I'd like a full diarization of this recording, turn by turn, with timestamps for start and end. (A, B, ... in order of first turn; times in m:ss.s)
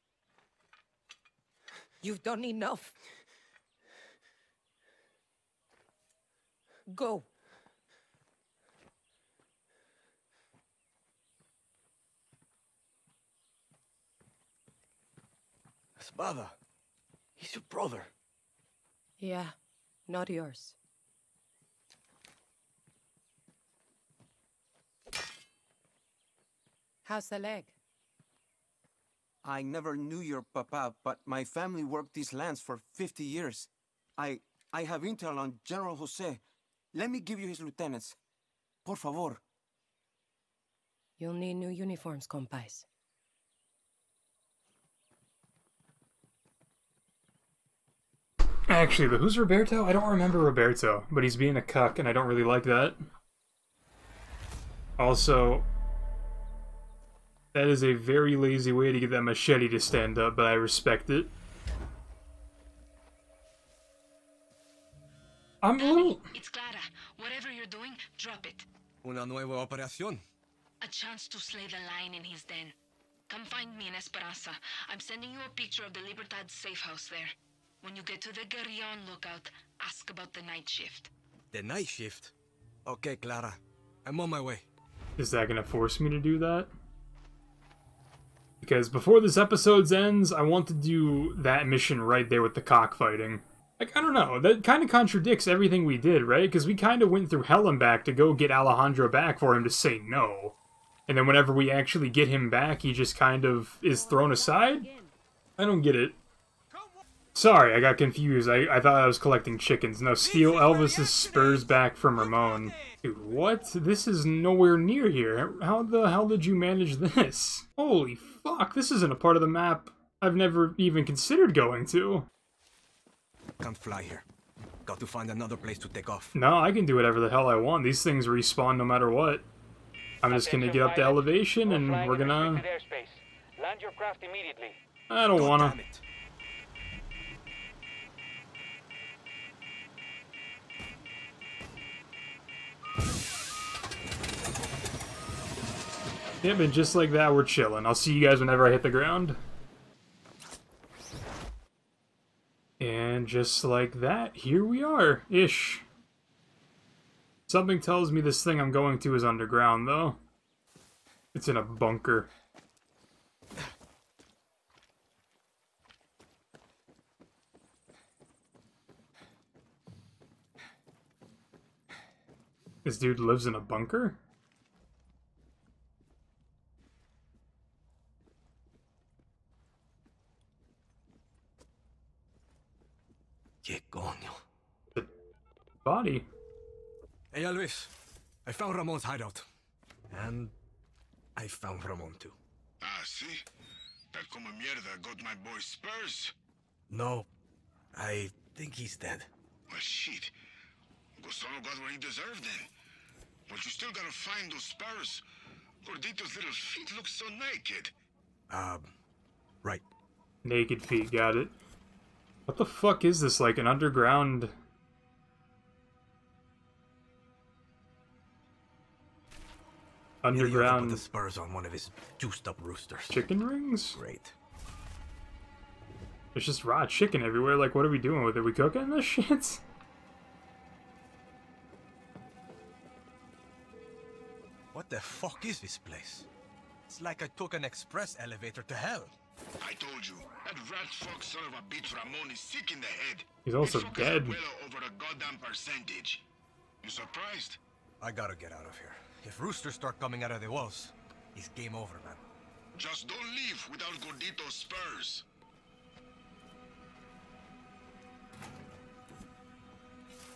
0:02.0-0:02.9 A
0:06.9-0:07.3 A
0:16.0-0:16.5 B
0:17.4-0:18.1 B
0:19.2-0:19.6 A
0:20.1-0:20.8 A
0:27.0-0:27.8 A
0:29.4-0:36.4 C
0:36.9-0:38.2 C
0:38.8-0:39.4 C
0:41.2-0:42.9 A
0:48.7-0:53.0 D
0:55.0-0:55.7 D
0:57.5-1:01.3 D
1:05.6-1:06.3 D
1:05.8-1:08.6 E
1:09.0-1:10.2 B
1:10.8-1:12.7 E
1:13.3-1:21.1 E
1:21.5-1:22.3 B
1:22.8-1:24.6 B
1:25.2-1:26.7 D
1:28.6-1:40.6 D
1:41.1-1:44.9 D
1:43.9-1:45.1 A
1:45.6-1:46.2 D
1:47.3-2:02.3 D
1:50.2-1:51.3 B
2:03.6-2:04.2 B
2:04.8-2:06.3 B
2:06.3-2:09.4 D
2:10.2-2:12.6 D
2:15.1-2:15.8 D
2:15.3-2:16.0 B
2:26.4-2:29.4 D
2:32.8-2:35.8 D
2:37.5-2:40.2 D
2:41.3-2:42.3 D
2:52.8-2:54.2 D
3:03.6-3:04.4 B
3:05.8-3:06.2 D
3:07.3-3:07.9 B
3:08.4-3:09.4 B
3:10.1-3:10.5 B
3:11.4-3:12.4 B
3:12.8-3:13.4 F
3:14.1-3:16.3 F
3:16.9-3:17.3 B
3:17.9-3:19.3 B
3:19.7-3:20.3 F
3:21.2-3:22.7 F
3:23.5-3:25.2 F
3:25.8-3:27.9 F
3:28.5-3:28.9 B
3:30.4-3:31.5 D
3:32.5-3:34.5 D
3:40.2-3:41.0 D
3:40.3-3:43.2 B
3:43.1-3:44.0 D
3:44.0-3:44.3 B
3:46.3-3:49.6 D
3:54.7-3:56.3 B
3:56.9-3:59.1 B
3:59.6-4:06.2 F
4:03.4-4:04.4 D
4:06.8-4:07.6 F
4:08.0-4:12.2 B
4:12.8-4:15.2 F